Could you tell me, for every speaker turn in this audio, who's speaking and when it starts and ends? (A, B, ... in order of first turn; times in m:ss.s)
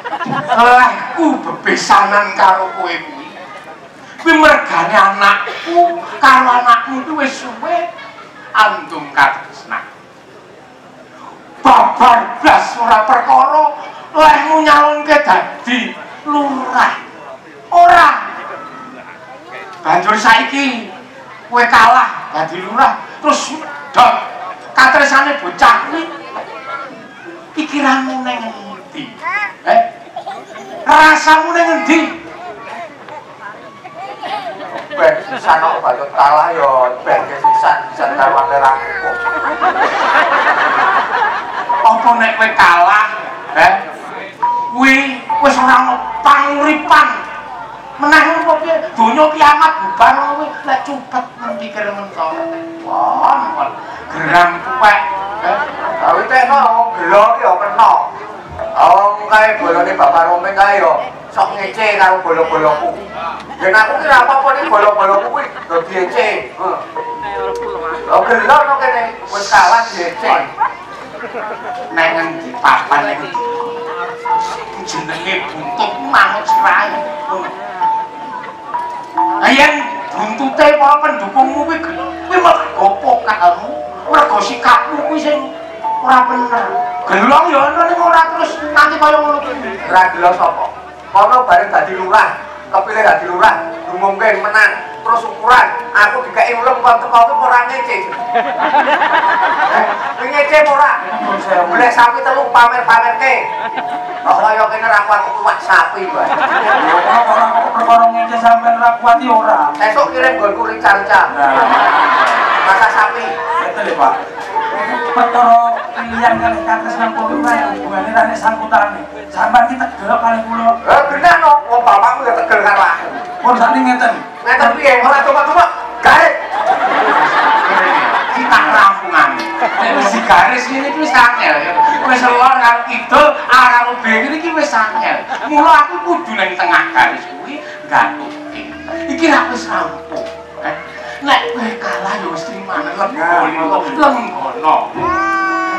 0:00.5-0:03.3 A
0:04.2-0:07.9 A
0:08.5-0:09.8 A
0:11.6-0:17.0 A
0:17.7-0:18.2 A
0:19.8-0:20.9 A
0:21.5-0:24.2 A
0:24.7-0:26.1 A
0:27.5-0:29.8 A
0:30.8-0:32.1 A
0:34.7-0:39.2 B
0:41.8-0:43.8 A
0:44.7-0:47.2 A
0:48.0-0:55.6 A
0:56.0-0:58.0 B
0:58.7-1:03.0 B
1:03.6-1:06.8 B
1:08.1-1:10.5 B
1:11.9-1:13.8 A
1:14.6-1:17.5 A
1:19.4-1:29.8 A
1:29.8-1:38.2 B
1:39.6-1:41.0 B
1:41.0-1:42.0 C
1:41.6-1:43.4 B
1:44.2-1:46.4 B
1:46.7-1:49.7 C
1:49.8-1:51.3 B
1:51.3-1:52.0 C
1:52.6-1:53.3 B
1:53.6-1:54.2 C
1:54.7-2:00.8 C
2:00.8-2:03.1 B
2:03.4-2:04.8 C
2:04.4-2:06.4 B
2:07.5-2:24.9 A
2:08.6-2:08.8 C
2:09.8-2:10.2 C
2:23.1-2:24.0 C